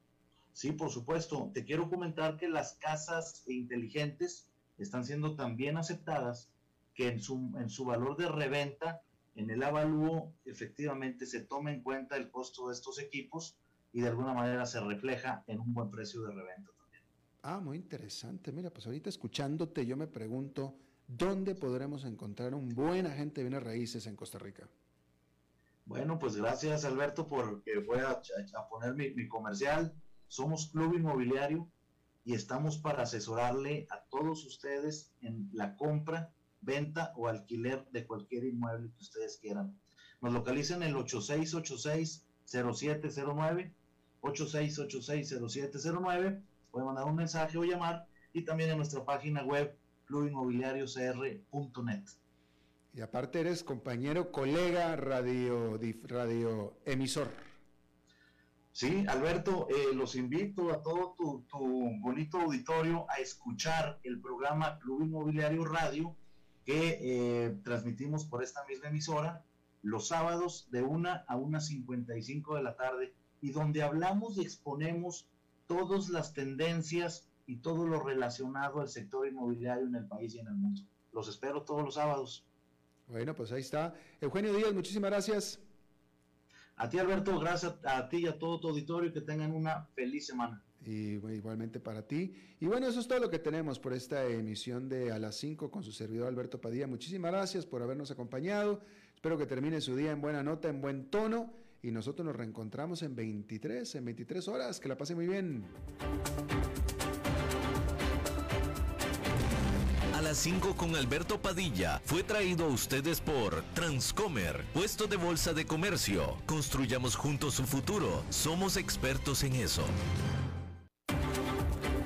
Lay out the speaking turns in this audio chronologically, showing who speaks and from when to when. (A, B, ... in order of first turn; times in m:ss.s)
0:00.5-0:17.0 A
0:17.4-0:24.7 B
0:25.9-0:31.7 A
0:32.2-0:52.2 A
0:52.9-0:57.5 B
0:58.7-1:22.5 A
1:23.1-1:25.6 B
1:26.8-1:30.6 A
1:30.8-1:45.8 B
1:50.1-2:00.0 C